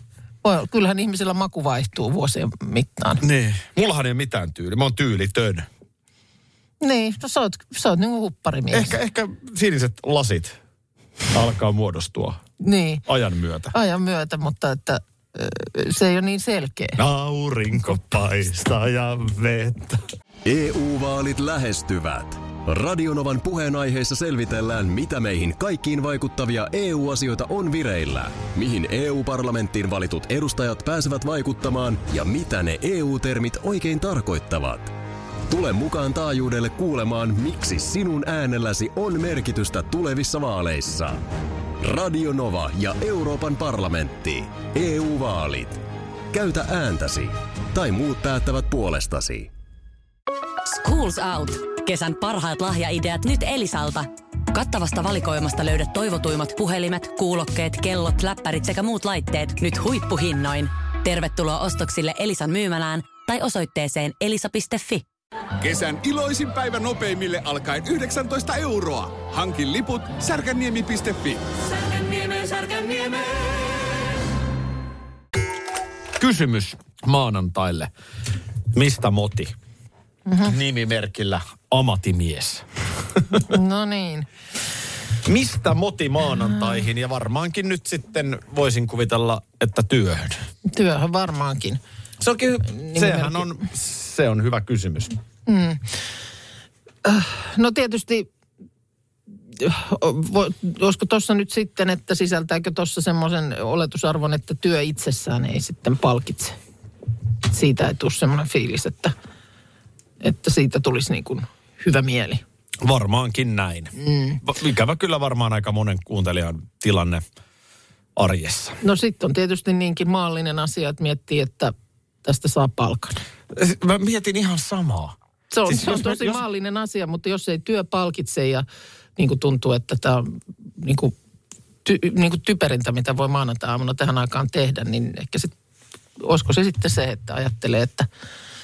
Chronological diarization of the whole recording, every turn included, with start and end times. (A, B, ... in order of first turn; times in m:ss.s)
0:00.4-0:03.2 A
0:03.2-0:05.7 B
0:06.8-0:09.0 A
0:08.7-0:10.6 B
0:11.3-0:12.4 B
0:12.6-0:13.0 A
0:13.0-0:13.7 B
0:13.7-0:17.0 A
0:17.0-0:20.1 B
0:20.4-0:34.9 C
0:35.5-0:41.2 C
0:41.8-0:49.5 C
0:50.6-1:05.0 D
1:05.6-1:13.6 E
1:16.2-1:17.9 B
1:18.7-1:19.5 B
1:20.3-1:20.5 A
1:20.4-1:23.4 B
1:23.4-1:24.3 A
1:25.2-1:30.4 B
1:30.7-1:31.8 A
1:32.2-1:35.2 B
1:32.7-1:33.5 A
1:35.5-1:36.0 A
1:37.0-1:38.3 A
1:39.6-1:46.6 A
1:47.4-1:49.1 A
1:50.2-1:52.4 A
1:52.8-1:57.2 B
1:54.0-1:54.4 A
1:58.2-1:58.8 B
1:58.8-2:03.2 A
2:03.5-2:06.4 B
2:05.5-2:08.6 A
2:09.2-2:11.1 A
2:11.8-2:15.5 A
2:16.2-2:18.1 A